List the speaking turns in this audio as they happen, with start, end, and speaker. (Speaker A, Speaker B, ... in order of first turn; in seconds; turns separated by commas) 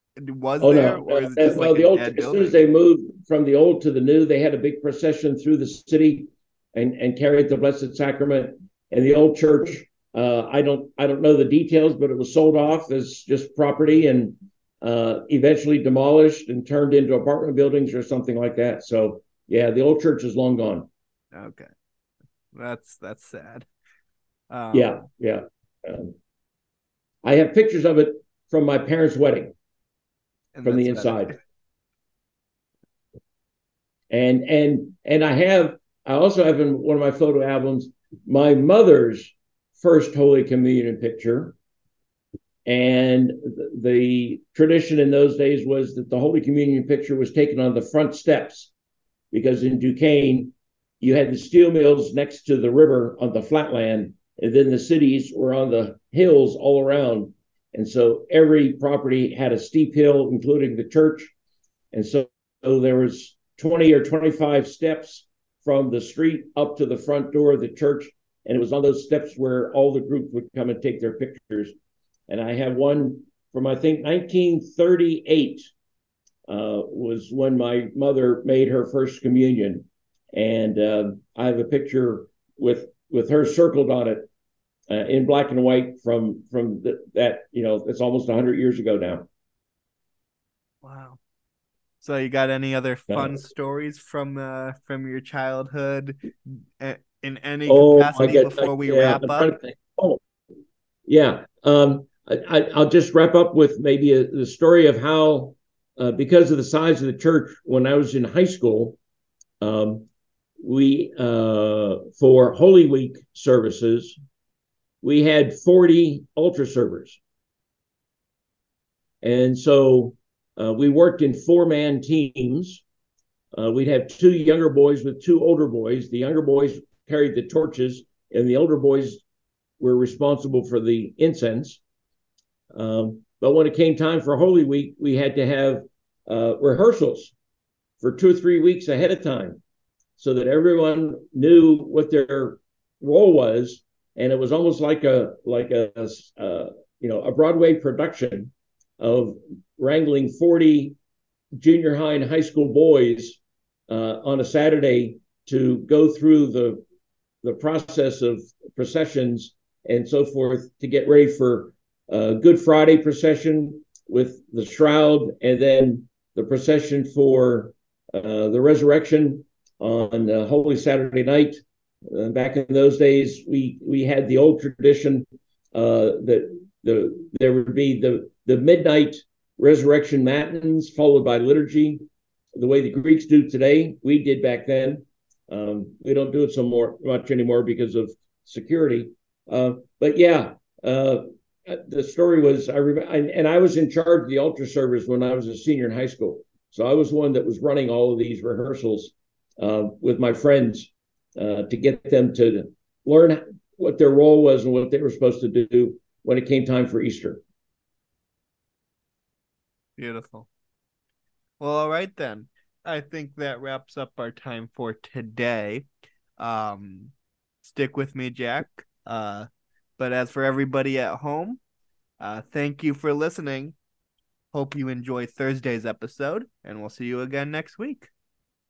Speaker A: 0.2-2.6, Speaker B: 0.6-20.9, Speaker A: 21.3-21.7, Speaker A: 22.5-23.7, Speaker A: 24.5-25.0, Speaker B: 24.7-26.1, Speaker B: 27.2-29.5, Speaker A: 30.6-31.4, Speaker B: 30.6-31.4, Speaker B: 34.1-41.6, Speaker B: 42.7-48.7, Speaker B: 49.3-61.3, Speaker B: 61.9-71.8, Speaker B: 72.3-75.7, Speaker B: 76.5-84.3, Speaker B: 84.9-89.3, Speaker A: 90.8-91.2, Speaker A: 92.0-99.5, Speaker B: 93.1-93.4, Speaker B: 97.7-100.2, Speaker B: 101.1-109.0, Speaker B: 109.6-110.1, Speaker B: 110.6-114.2, Speaker B: 115.0-117.2, Speaker B: 119.2-122.8, Speaker B: 123.5-129.2, Speaker B: 129.8-131.8, Speaker B: 132.7-137.3, Speaker B: 138.0-139.6, Speaker B: 140.2-151.0, Speaker B: 151.6-156.8, Speaker B: 157.4-182.0, Speaker B: 182.6-207.4, Speaker A: 210.0-210.5, Speaker A: 211.6-215.9, Speaker A: 216.4-221.6, Speaker A: 222.2-223.8, Speaker A: 224.5-228.1